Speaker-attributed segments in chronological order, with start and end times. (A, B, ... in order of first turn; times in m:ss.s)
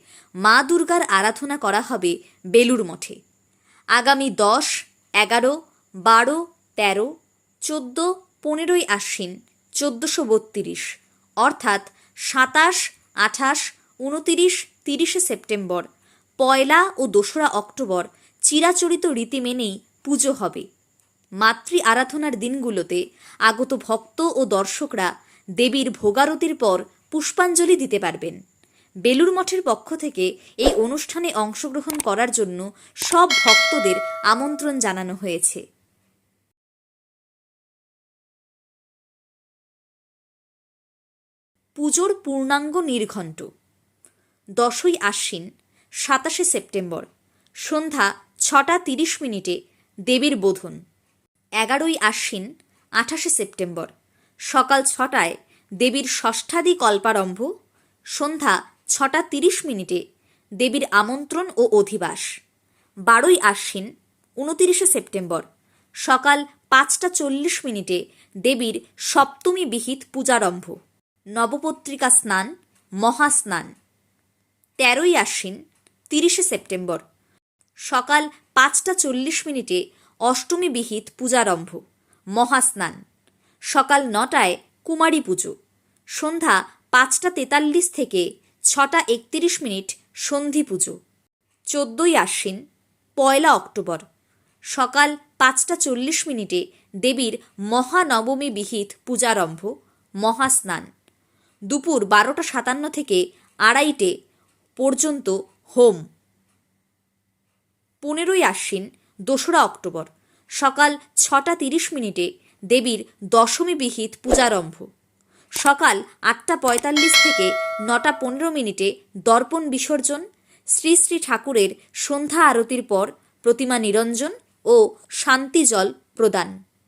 0:00.4-0:03.2 A
0:04.0-0:04.7 A
0:05.2-0:05.5 A
0:06.0-0:07.1 A
0:07.7-0:10.8 A
0:11.4-0:15.8 A
0:16.4-0:20.6 A
0:21.4-0:25.1 A
0:25.6-0:28.4 A
0:29.0-0:35.6 A
0:41.8-0:43.5 A
0:44.6-0:45.4 A
0:46.0-0:47.1 A
0:47.6-0:49.6 A
0:50.1-0:50.8 A
0:51.6-0:52.4 A
0:53.0-0:53.9 A
0:54.5-0:57.5 A
0:58.2-1:00.0 A
1:00.6-1:02.3 A
1:03.1-1:03.9 A
1:04.4-1:05.4 A
1:06.0-1:10.8 A
1:11.4-1:12.5 A
1:13.0-1:13.7 A
1:14.8-1:15.6 A
1:16.1-1:17.0 A
1:17.9-1:21.8 A
1:22.4-1:23.0 A
1:23.7-1:25.5 A
1:26.2-1:31.0 A
1:31.7-1:32.6 A
1:33.2-1:34.0 A
1:34.7-1:39.7 A
1:40.2-1:40.9 A
1:41.7-1:44.1 A
1:44.8-1:46.0 A
1:48.0-1:50.1 A
1:50.6-1:54.9 A
1:55.6-2:00.2 A
2:00.7-2:06.5 A